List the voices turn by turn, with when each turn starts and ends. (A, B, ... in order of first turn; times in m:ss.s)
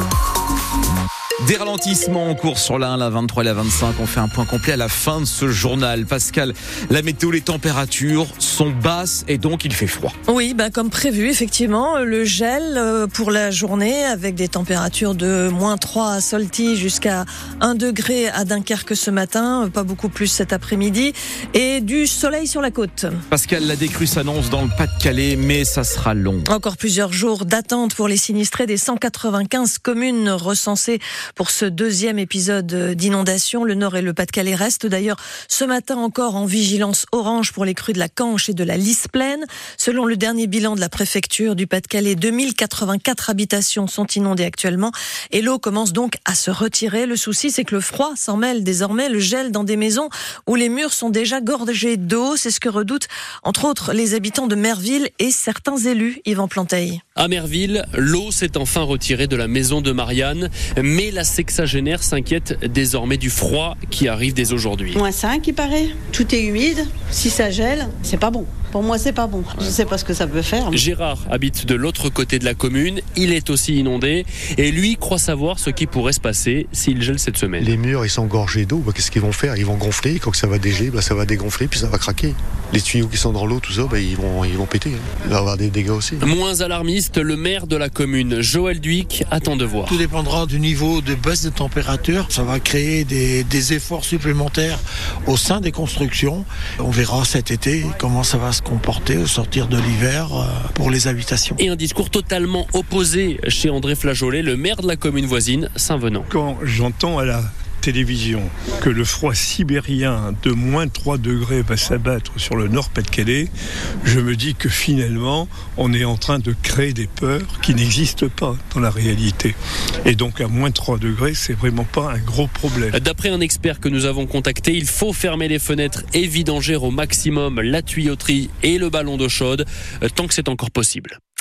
0:01.4-0:10.1 A
0:10.3-0:23.2 B
0:23.3-0:26.5 A
0:26.5-0:57.0 B
0:57.2-1:05.0 C
1:04.9-1:10.8 D
1:10.7-1:17.8 C
1:17.6-1:26.3 E
1:26.2-1:30.0 C
1:29.9-1:41.6 F
1:41.6-1:46.3 C
1:46.3-1:53.5 G
1:54.0-2:03.0 G
2:02.9-2:11.2 C